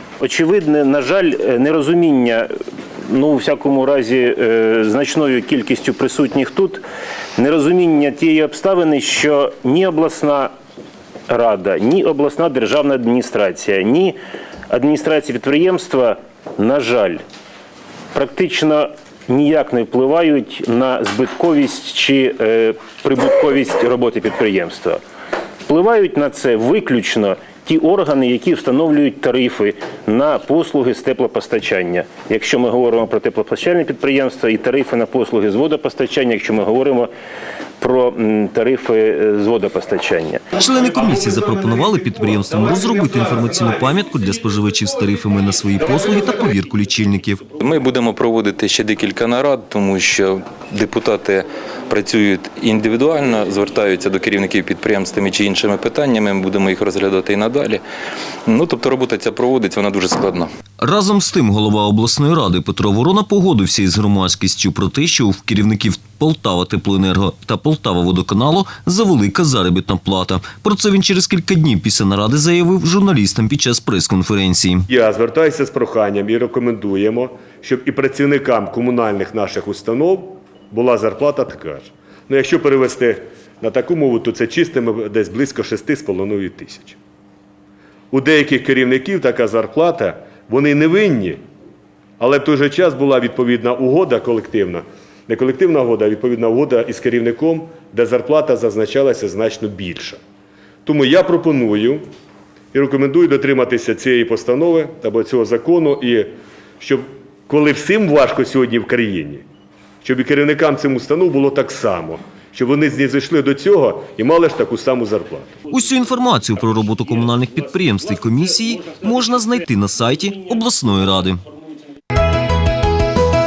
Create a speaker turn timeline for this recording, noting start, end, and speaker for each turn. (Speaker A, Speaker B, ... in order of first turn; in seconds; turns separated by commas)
Speaker A: 0.2-2.5, Speaker A: 3.1-6.8, Speaker A: 7.4-10.5, Speaker A: 11.3-14.2, Speaker A: 14.7-17.2, Speaker A: 18.1-25.0, Speaker A: 25.7-37.1, Speaker A: 37.8-40.4, Speaker B: 40.5-47.5, Speaker C: 47.5-57.8, Speaker C: 58.5-60.5, Speaker B: 60.8-74.9, Speaker D: 74.9-87.0, Speaker D: 88.1-91.4, Speaker D: 92.2-100.2, Speaker D: 100.8-102.0, Speaker D: 102.7-109.5, Speaker D: 110.0-115.6, Speaker B: 115.7-121.4